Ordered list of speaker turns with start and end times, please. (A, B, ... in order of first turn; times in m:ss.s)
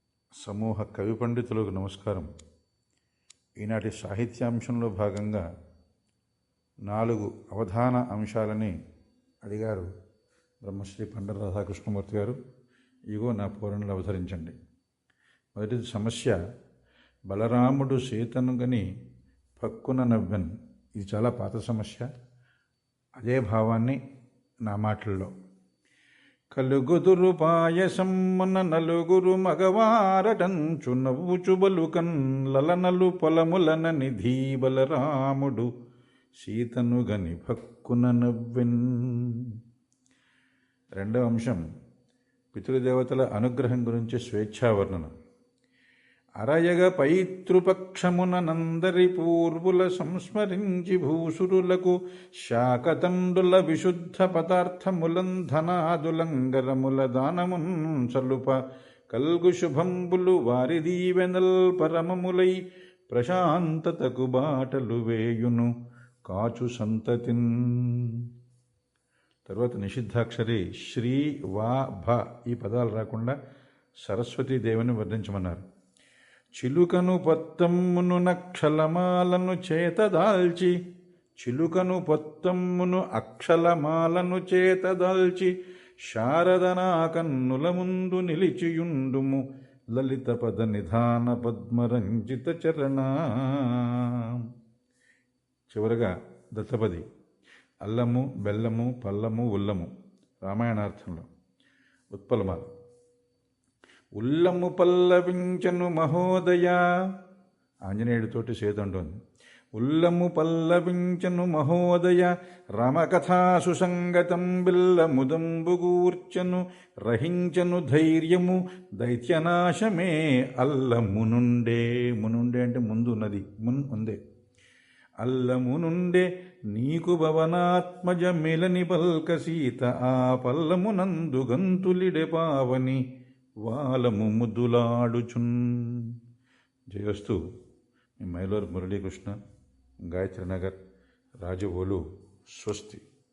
0:00.4-0:02.3 A
0:03.6-0:05.4 A
0:06.9-0:08.7 A
0:09.4-0:09.9 A
0:10.6-0:12.4 A
0:13.1-0:14.5 A
0:15.6-0:16.4 A
0:17.3-0:18.8 A
0:19.6-0:22.1 A
0:23.2-0:24.0 A
0:24.7-0:25.3 A
0:26.5-0:35.7 A
0:36.4-0:39.5 A
0:41.0-0:41.6 A
0:42.5-0:45.1 A
0:46.4-0:58.5 A
0:59.1-1:02.6 A
1:03.1-1:05.7 A
1:06.3-1:08.2 A
1:09.5-1:13.3 A
1:14.0-1:15.6 A
1:16.6-1:20.7 A
1:21.4-1:25.5 A
1:26.1-1:29.4 A
1:29.9-1:34.5 A
1:35.7-1:37.0 A
1:37.8-1:39.9 A
1:40.4-1:41.3 A
1:42.1-1:42.7 A
1:44.2-1:46.8 A
1:47.9-1:49.2 A
1:49.8-2:04.2 A
2:05.2-2:13.0 A
2:13.6-2:16.1 A
2:16.9-2:17.4 A
2:18.2-2:19.4 A
2:20.1-2:20.8 A
2:21.4-2:22.0 A
2:22.5-2:23.0 A